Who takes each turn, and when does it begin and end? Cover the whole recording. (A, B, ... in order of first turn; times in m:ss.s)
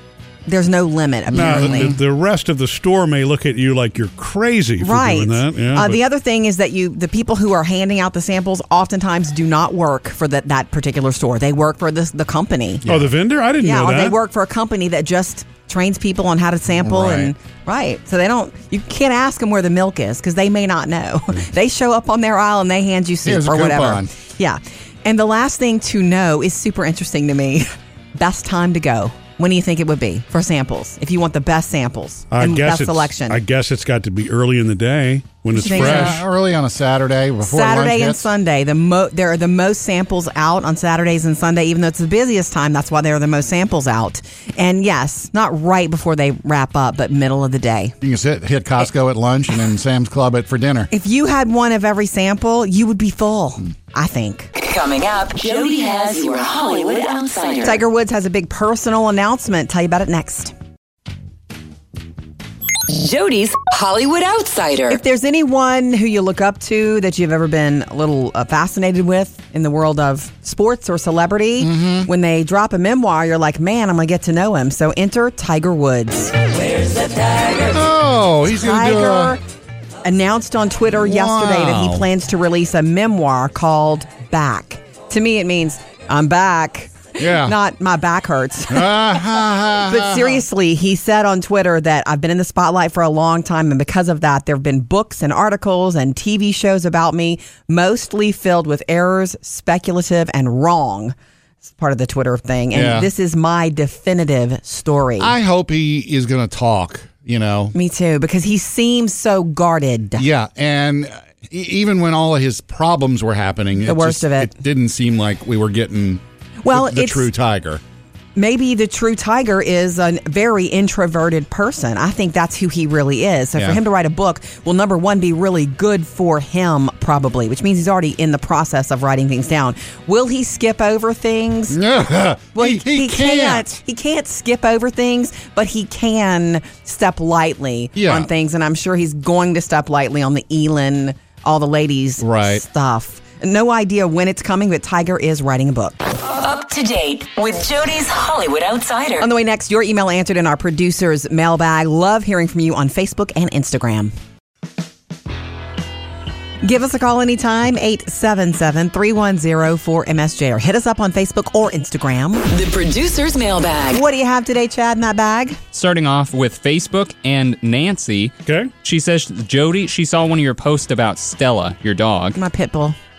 0:00.5-0:02.0 A
0:01.3-0:02.0 B
0:01.3-0:06.0 C
0:04.8-0:12.8 A
0:12.8-0:13.1 B
0:12.9-0:14.2 C
0:13.6-0:33.4 A
0:16.8-0:17.3 B
0:23.2-0:24.1 B
0:32.3-0:36.2 C
0:35.5-0:36.2 A
0:35.7-0:38.3 B
0:37.4-0:47.9 A
0:48.0-0:50.9 B
0:50.9-0:54.5 A
0:54.6-0:57.8 D
0:57.6-1:00.5 A
1:02.8-1:05.0 D
1:04.9-1:16.4 A
1:11.6-1:12.1 B
1:17.6-1:19.4 B
1:18.5-1:19.4 A
1:20.0-1:29.4 A
1:21.0-1:22.1 B
1:27.2-1:27.6 B
1:28.7-1:30.4 B
1:29.9-1:41.2 A
1:41.7-1:45.4 A
1:42.7-1:43.1 B
1:45.2-1:47.8 B
1:47.8-1:50.3 A
1:50.2-1:57.8 B
1:53.8-1:54.5 A
1:56.6-1:57.3 A
1:58.4-2:11.8 A
2:11.7-2:13.7 B
2:12.6-2:26.0 A
2:18.0-2:18.3 B
2:22.2-2:22.6 B
2:26.2-2:29.3 D
2:29.2-2:34.1 A
2:36.6-2:42.4 A
2:42.5-2:44.0 D
2:43.9-2:45.6 A
2:45.7-2:52.4 E
2:52.4-2:53.0 A